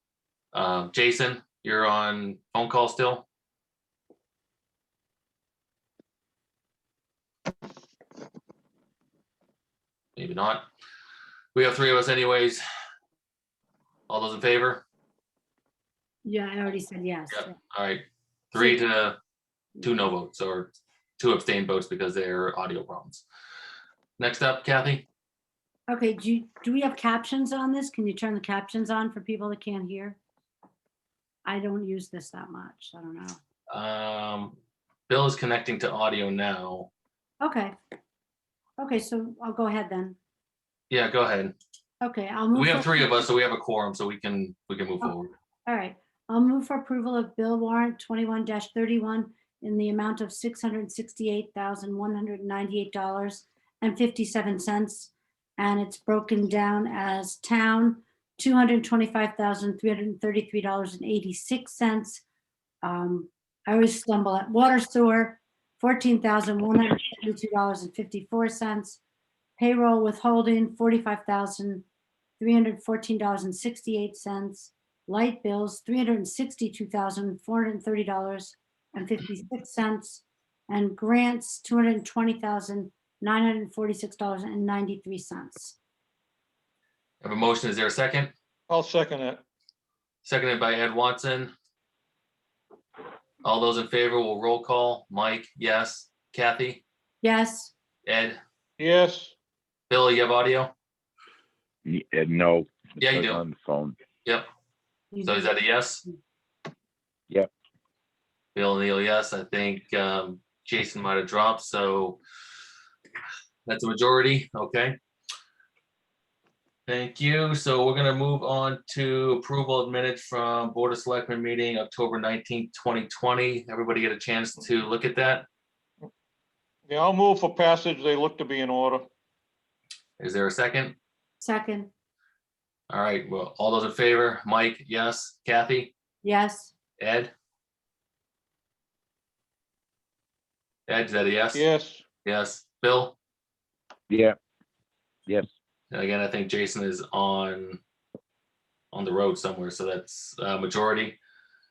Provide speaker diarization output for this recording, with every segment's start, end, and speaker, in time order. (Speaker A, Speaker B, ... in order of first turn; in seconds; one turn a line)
Speaker A: 0.5-3.2
Speaker A: 10.2-10.7
Speaker A: 11.5-12.6
Speaker A: 14.1-14.8
Speaker B: 16.2-17.5
Speaker A: 17.3-19.2
Speaker B: 19.8-20.1
Speaker A: 19.8-23.2
Speaker A: 24.2-25.1
Speaker B: 25.9-30.2
Speaker B: 31.4-33.4
Speaker A: 33.7-34.6
Speaker A: 35.1-36.9
Speaker B: 37.4-37.7
Speaker B: 38.8-40.2
Speaker A: 40.9-41.5
Speaker B: 42.0-43.2
Speaker A: 42.5-45.3
Speaker B: 45.6-62.2
Speaker B: 62.8-69.0
Speaker B: 69.6-71.8
Speaker B: 72.4-85.8
Speaker A: 87.2-88.3
Speaker C: 88.7-89.4
Speaker A: 90.2-91.5
Speaker A: 93.4-96.8
Speaker B: 97.2-97.7
Speaker A: 98.0-98.4
Speaker C: 98.8-99.3
Speaker A: 99.9-100.7
Speaker D: 101.8-104.0
Speaker A: 103.0-103.4
Speaker B: 105.1-105.5
Speaker A: 105.2-106.0
Speaker A: 108.5-112.2
Speaker A: 113.7-115.0
Speaker A: 116.9-125.4
Speaker C: 126.9-129.1
Speaker A: 130.2-131.0
Speaker B: 131.4-131.9
Speaker A: 132.9-135.9
Speaker B: 136.2-136.7
Speaker A: 137.0-137.3
Speaker A: 140.9-141.7
Speaker C: 141.5-142.0
Speaker A: 142.2-143.2
Speaker D: 144.1-144.4
Speaker A: 145.9-147.8
Speaker A: 148.9-151.2